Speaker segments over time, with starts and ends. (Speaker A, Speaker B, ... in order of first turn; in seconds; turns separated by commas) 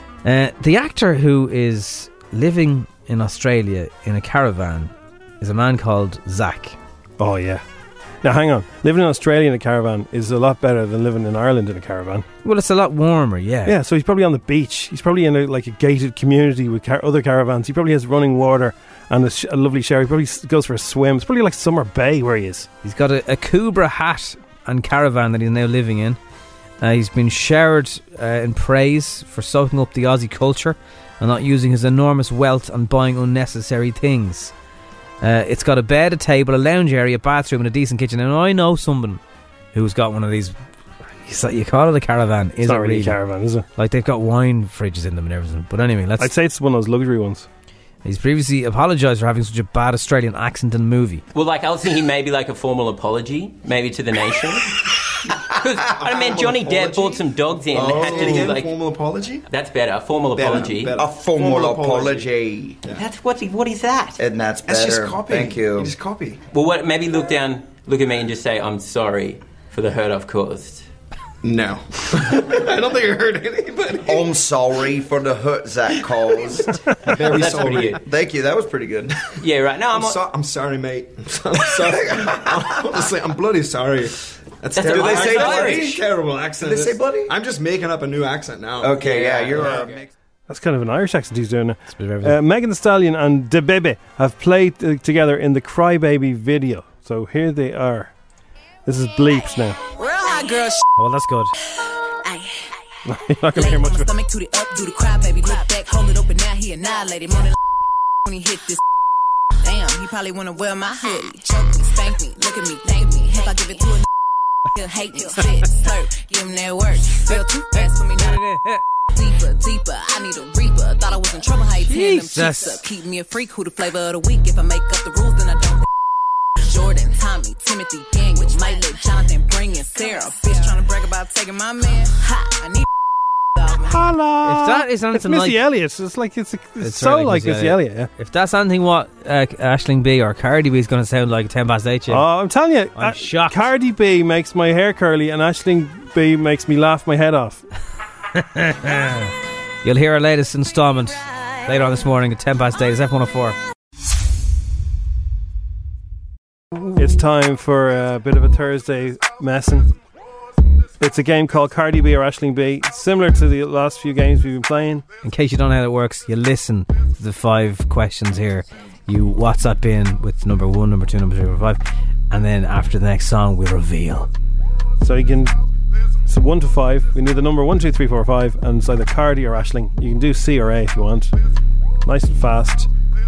Speaker A: 0.2-6.8, Speaker B: 7.2-7.6, Speaker B: 8.2-12.3, Speaker A: 12.4-13.8, Speaker B: 13.6-22.7, Speaker A: 22.8-26.2, Speaker A: 26.8-34.5, Speaker A: 35.2-39.2, Speaker A: 39.7-40.5, Speaker A: 41.2-43.2, Speaker B: 42.6-43.6, Speaker A: 43.8-46.3, Speaker B: 46.2-47.5, Speaker A: 48.0-51.2, Speaker C: 51.3-54.7, Speaker C: 55.6-58.7, Speaker D: 56.0-59.5, Speaker E: 57.7-58.6, Speaker C: 59.5-61.0, Speaker D: 60.4-62.3, Speaker E: 60.4-63.0, Speaker C: 63.1-64.1, Speaker E: 64.1-65.9, Speaker D: 64.7-66.4, Speaker C: 66.5-70.8, Speaker D: 71.4-74.3, Speaker E: 74.0-79.1, Speaker D: 77.0-78.0, Speaker C: 77.2-78.0, Speaker C: 79.4-80.2, Speaker D: 79.9-90.0, Speaker E: 82.3-82.8, Speaker C: 84.7-85.9, Speaker E: 84.8-87.3, Speaker E: 88.8-90.0, Speaker B: 90.5-98.1, Speaker A: 91.9-92.4, Speaker B: 98.8-99.8, Speaker F: 100.0-100.8, Speaker A: 101.0-101.5, Speaker F: 102.2-102.7, Speaker B: 103.0-104.1, Speaker F: 103.5-107.5, Speaker F: 108.3-108.8, Speaker F: 109.6-114.0, Speaker F: 114.7-118.4, Speaker A: 117.3-118.8, Speaker F: 119.1-125.8, Speaker A: 121.8-122.8, Speaker F: 126.6-132.8, Speaker F: 133.6-134.0, Speaker B: 133.8-138.1, Speaker A: 134.4-135.6, Speaker A: 136.8-142.2, Speaker B: 142.1-147.6, Speaker A: 142.9-143.7, Speaker A: 148.3-153.6, Speaker B: 156.9-159.9, Speaker B: 161.0-165.0, Speaker A: 165.2-174.3, Speaker B: 175.0-175.6, Speaker B: 176.2-181.3, Speaker B: 182.0-182.9